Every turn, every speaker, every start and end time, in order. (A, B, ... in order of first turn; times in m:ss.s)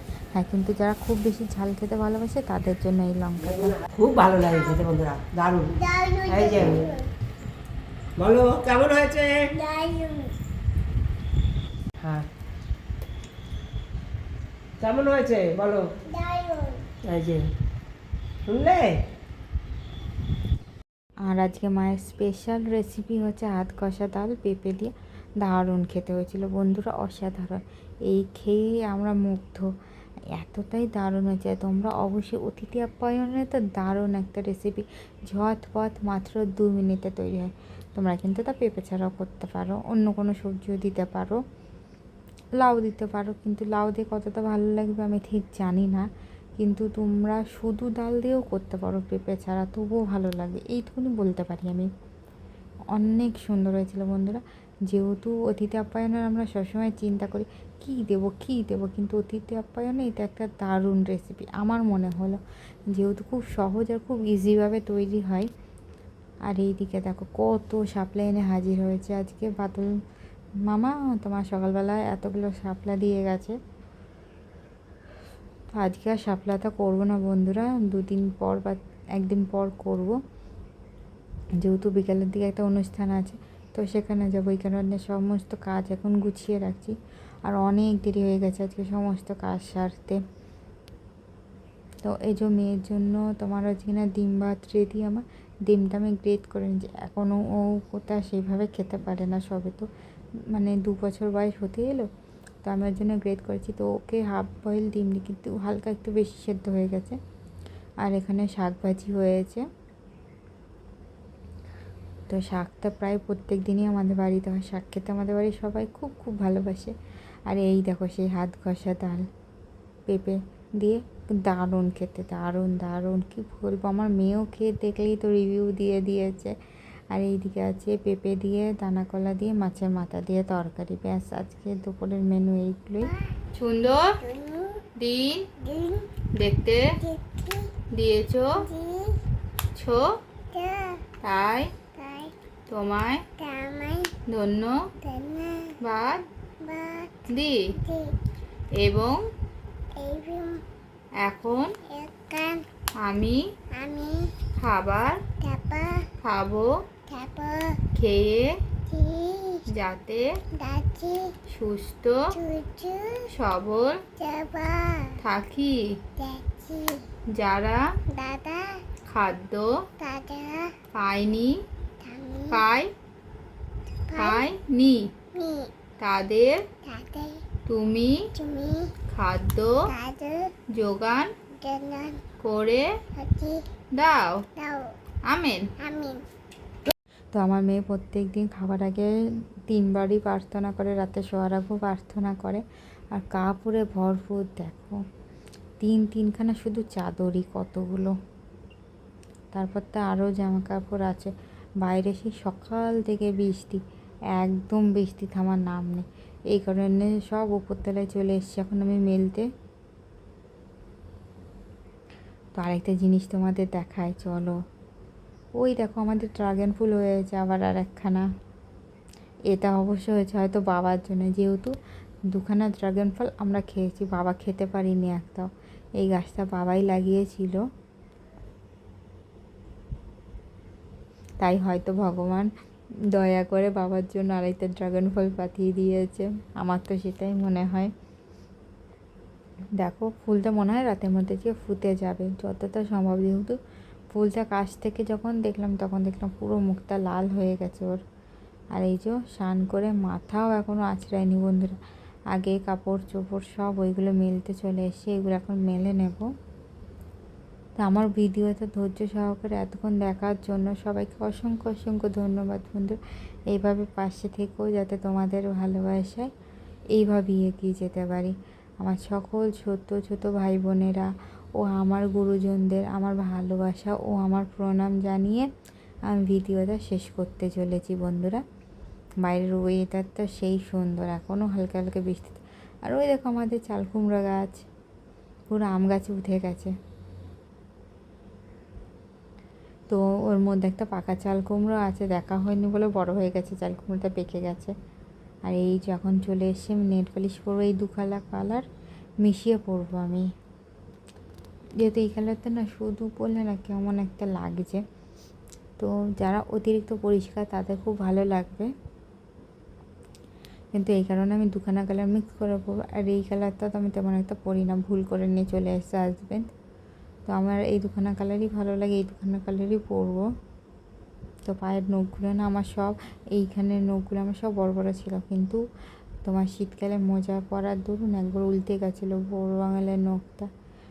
0:00.3-0:03.8 A
0:03.9-0:05.8 B
0:04.3-0:04.9 C
0:05.7-0:07.1 C
0:06.3-0:06.9 B
0:08.2-0:09.5 B
0:09.5-0:10.4 C
0:12.0-0:12.3 B
0:14.8-0:15.9 B
0:16.0-0:17.0 C
0:17.0-0:17.5 B
0:18.4-0:19.0 B
0:21.2-0:29.7 A
0:30.3-0:41.4 A
0:42.6-0:51.9 A
0:52.9-1:02.4 A
1:02.9-1:05.5 A
1:06.5-1:09.9 A
1:10.7-1:13.6 A
1:15.7-1:20.2 A
1:21.6-1:30.2 A
1:32.0-1:39.9 A
1:40.5-1:42.1 A
1:42.6-1:47.2 A
1:48.0-1:49.6 A
1:52.3-1:56.9 A
1:57.5-1:59.2 A
2:00.1-2:06.5 A
2:07.1-2:13.1 A
2:13.0-2:13.4 C
2:13.5-2:14.2 D
2:14.2-2:14.9 C
2:15.0-2:15.5 D
2:15.6-2:16.1 C
2:16.4-2:16.9 D
2:17.0-2:17.7 C
2:17.9-2:18.6 D
2:18.6-2:19.2 C
2:19.8-2:20.2 D
2:20.5-2:21.0 C
2:21.2-2:21.7 D
2:21.9-2:22.3 C
2:22.7-2:23.2 D
2:23.4-2:24.2 C
2:24.3-2:24.9 D
2:25.0-2:25.8 C
2:25.8-2:26.2 D
2:26.6-2:28.2 C
2:27.3-2:27.7 D
2:28.8-2:29.2 D
2:29.9-2:30.6 C
2:31.2-2:31.7 D
2:31.8-2:32.6 C
2:33.0-2:33.4 D
2:33.7-2:34.4 C
2:34.6-2:35.2 D
2:35.4-2:36.1 C
2:36.2-2:36.8 D
2:37.1-2:37.8 C
2:37.9-2:38.5 D
2:38.9-2:39.6 C
2:39.7-2:40.3 D
2:40.5-2:41.3 C
2:41.5-2:42.2 D
2:42.3-2:43.3 C
2:43.3-2:44.0 D
2:44.2-2:45.2 C
2:45.2-2:46.0 D
2:46.2-2:47.0 C
2:47.3-2:47.8 D
2:48.1-2:48.8 C
2:49.1-2:49.9 D
2:50.0-2:50.7 C
2:50.9-2:51.6 D
2:52.0-2:52.6 C
2:52.5-2:52.9 D
2:54.1-2:54.5 C
2:54.2-2:55.1 D
2:55.3-2:55.7 C
2:56.0-2:56.6 D
2:56.8-2:57.4 C
2:57.7-2:58.2 D
2:58.3-2:58.9 C
2:59.1-2:59.9 D
2:59.9-3:00.5 C
3:00.8-3:01.3 D
3:01.5-3:02.2 C
3:02.4-3:02.9 D
3:03.1-3:03.6 C
3:03.9-3:04.4 D
3:04.6-3:04.9 C
3:05.3-3:05.7 D
3:05.8-3:06.2 C
3:07.3-3:09.1 A
3:09.7-3:15.0 A
3:15.8-3:18.1 A
3:19.5-3:21.3 A
3:21.8-3:23.8 A
3:24.4-3:29.5 A
3:32.6-3:34.6 A
3:35.6-3:38.2 A
3:39.5-3:41.7 A
3:42.3-3:45.5 A
3:46.0-3:47.6 A
3:51.4-3:52.5 A
3:53.1-3:57.9 A
3:59.8-4:03.6 A
4:04.1-4:08.0 A
4:08.7-4:11.8 A
4:12.3-4:16.3 A
4:17.8-4:23.0 A
4:23.5-4:26.3 A
4:26.9-4:35.5 A
4:36.1-4:38.4 A
4:39.2-4:44.6 A
4:45.5-4:46.7 A
4:49.9-4:54.7 A
4:55.5-4:58.6 A
4:59.2-5:00.3 A
5:01.8-5:04.8 A
5:05.8-5:08.7 A
5:10.7-5:16.4 A
5:17.3-5:20.2 A
5:21.4-5:25.6 A
5:26.2-5:30.5 A